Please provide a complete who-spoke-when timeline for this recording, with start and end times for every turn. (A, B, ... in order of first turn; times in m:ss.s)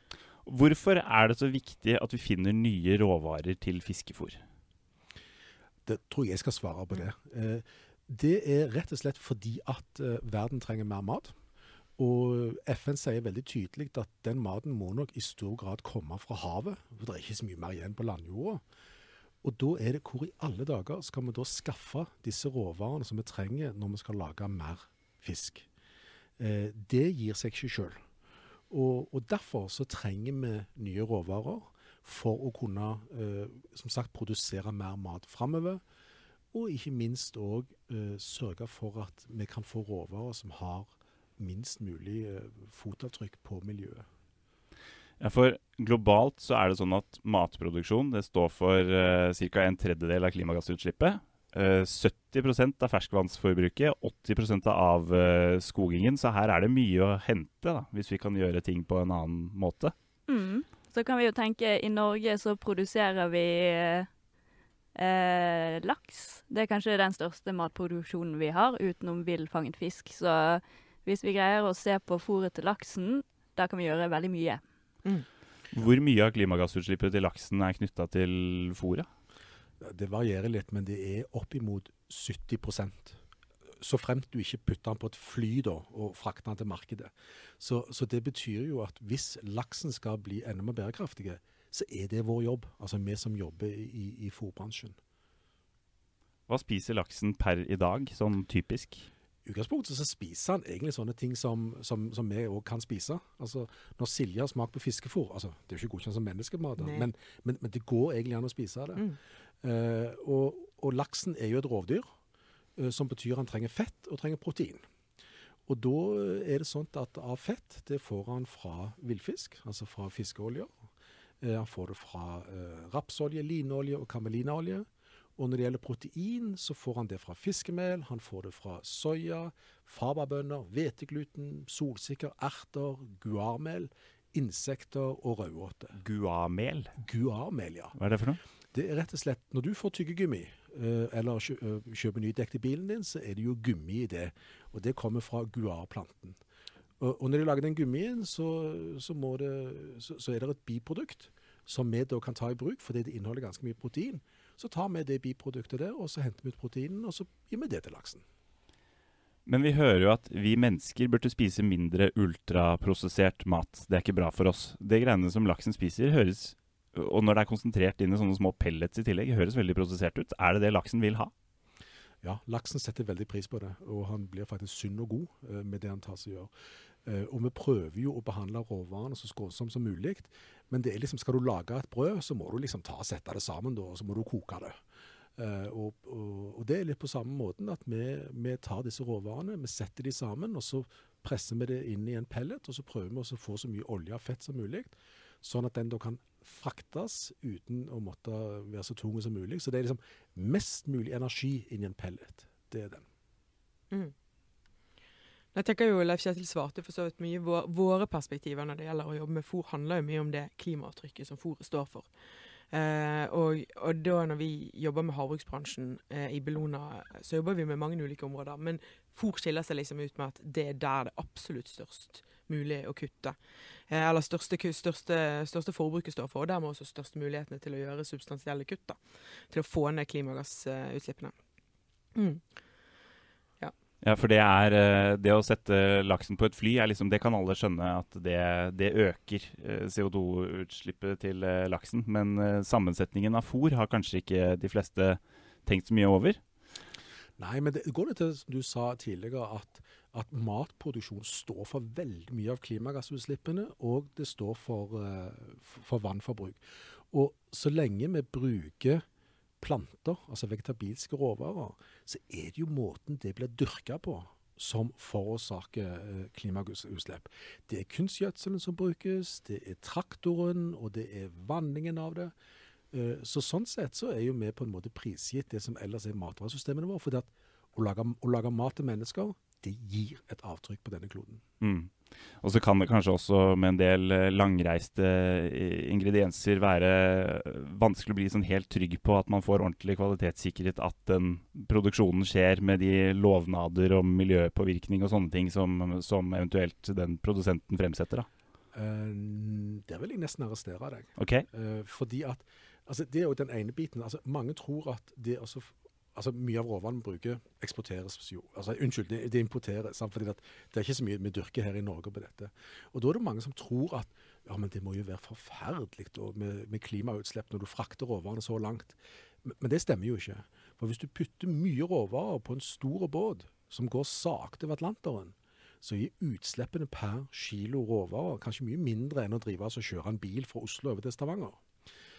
0:00.5-0:04.4 A
0:05.8-0:11.4 B
0:12.0-0:18.6 B
0:19.4-0:25.7 B
0:26.4-0:28.0 B
0:28.7-0:35.8 B
0:36.5-0:44.1 B
0:45.2-0:59.9 A
1:00.3-1:04.1 C
1:05.0-1:14.6 C
1:15.7-1:19.1 A
1:19.8-1:23.2 B
1:23.8-1:35.0 B
1:36.5-1:39.1 A
1:39.4-1:49.1 B
1:46.8-1:47.1 D
1:49.6-1:52.1 B
1:52.8-1:54.9 B
1:55.7-2:00.7 B
2:01.4-2:16.0 B
2:16.0-2:17.0 A
2:17.0-2:18.0 B
2:18.0-2:18.4 A
2:18.7-2:26.4 B
2:27.0-2:38.2 B
2:39.5-2:51.3 A
2:52.2-2:56.5 B
2:57.0-3:04.8 B
3:05.4-3:23.1 B
3:25.5-3:32.1 D
3:32.7-3:43.4 D
3:43.9-3:49.0 D
3:49.5-3:51.3 D
3:52.2-3:52.4 D
3:54.0-4:06.4 A
4:07.4-4:19.0 B
4:19.6-4:32.3 B
4:32.9-4:41.4 B
4:41.6-4:58.3 A
4:58.7-5:31.6 B
5:01.2-5:01.4 A